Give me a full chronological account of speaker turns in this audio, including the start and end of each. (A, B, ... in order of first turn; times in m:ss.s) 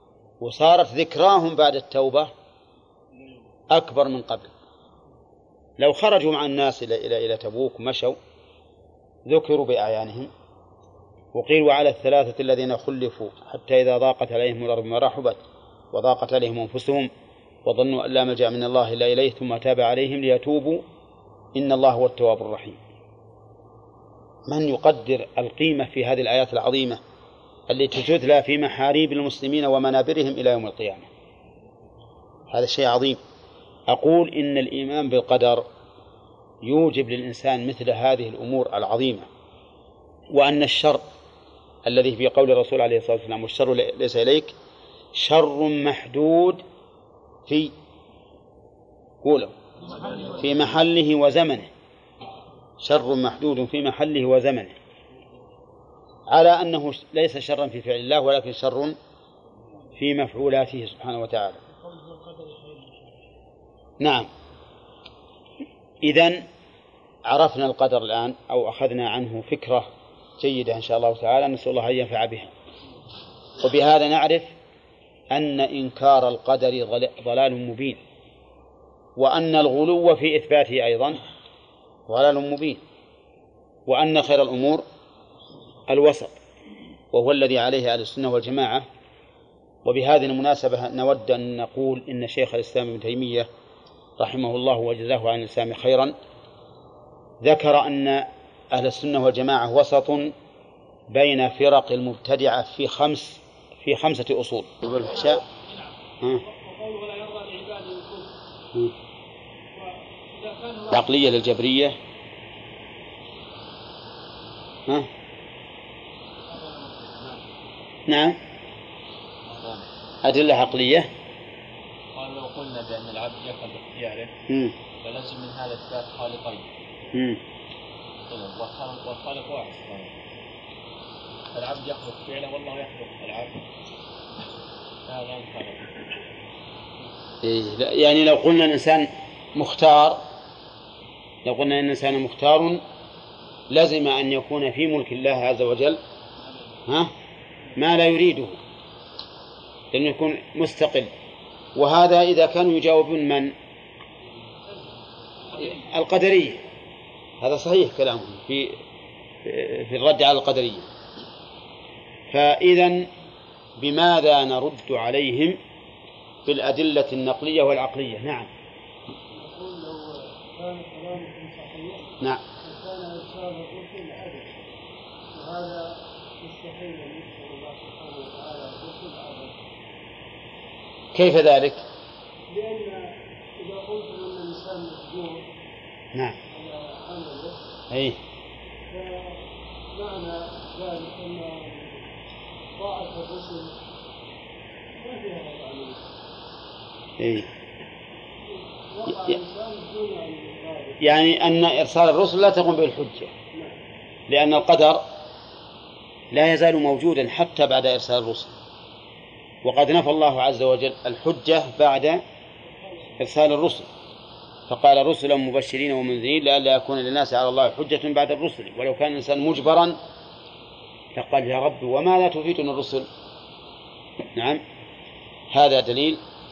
0:00.4-0:02.3 A
0:03.7-0:04.5 A
0:05.8-0:08.2 A
0:09.3-0:10.3 A
0:11.3-0:15.4 A
0:15.9-0:17.1 A
0:17.6-0:20.8 A
0:21.6-0:22.8 A
0:24.5-0:27.0 A
0:27.7-0:31.1 A
0:32.5-0:33.2 A
0:33.9-0:35.6 A
0:36.6-0:39.3 A
0:40.3-0:41.0 A
0:41.8-0:44.5 A
0:45.1-0:46.6 A
0:47.5-0:47.7 A
0:49.2-0:49.5 A
0:49.9-0:50.4 B
0:50.4-0:51.7 A
0:52.8-0:54.8 A
0:56.3-0:59.0 A
1:00.0-1:01.6 A
1:01.8-1:03.1 B
1:04.0-1:04.3 A
1:06.0-1:06.5 A
1:07.3-1:09.9 A
1:10.4-1:12.5 A
1:13.6-1:14.5 A
1:15.3-1:18.0 A
1:19.2-1:21.2 A
1:22.1-1:22.8 A
1:23.9-1:24.8 A
1:25.9-1:26.4 A
1:27.1-1:28.9 A
1:29.8-1:33.5 A
1:34.2-1:36.2 A
1:37.4-1:40.3 A
1:41.1-1:45.4 A
1:46.4-1:48.3 B
1:49.7-1:51.1 B
1:50.9-1:52.0 A
1:56.5-1:57.4 C
1:58.1-1:58.4 A
1:59.4-1:59.9 C
2:00.2-2:01.1 A
2:02.2-2:04.3 C
2:04.5-2:04.8 A
2:05.0-2:06.7 C
2:07.1-2:07.4 A
2:08.3-2:10.2 C
2:11.5-2:13.6 C
2:15.1-2:16.1 C
2:17.4-2:20.2 A
2:21.4-2:22.8 A
2:23.7-2:26.0 A
2:26.4-2:26.7 C
2:26.9-2:27.1 A
2:27.8-2:28.6 A
2:29.9-2:31.1 A
2:31.8-2:33.5 A
2:35.6-2:36.6 A
2:37.4-2:38.8 A
2:39.4-2:40.9 A
2:42.3-2:43.1 A
2:43.8-2:45.6 A
2:46.5-2:48.5 A
2:49.3-2:54.5 B
2:55.3-2:59.6 B
3:01.1-3:01.8 A
3:02.5-3:05.5 B
3:06.5-3:07.6 B
3:07.9-3:08.2 A
3:08.9-3:09.4 B
3:09.9-3:12.0 B
3:12.8-3:13.8 B
3:15.0-3:16.0 B
3:17.2-3:17.5 A
3:18.8-3:21.0 B
3:19.1-3:19.4 A
3:21.0-3:23.3 A
3:24.3-3:25.0 A
3:26.3-3:28.5 A
3:29.6-3:32.2 A
3:33.2-3:33.9 A
3:34.7-3:40.0 A
3:41.2-3:43.1 A
3:44.4-3:44.6 A
3:45.5-3:46.2 A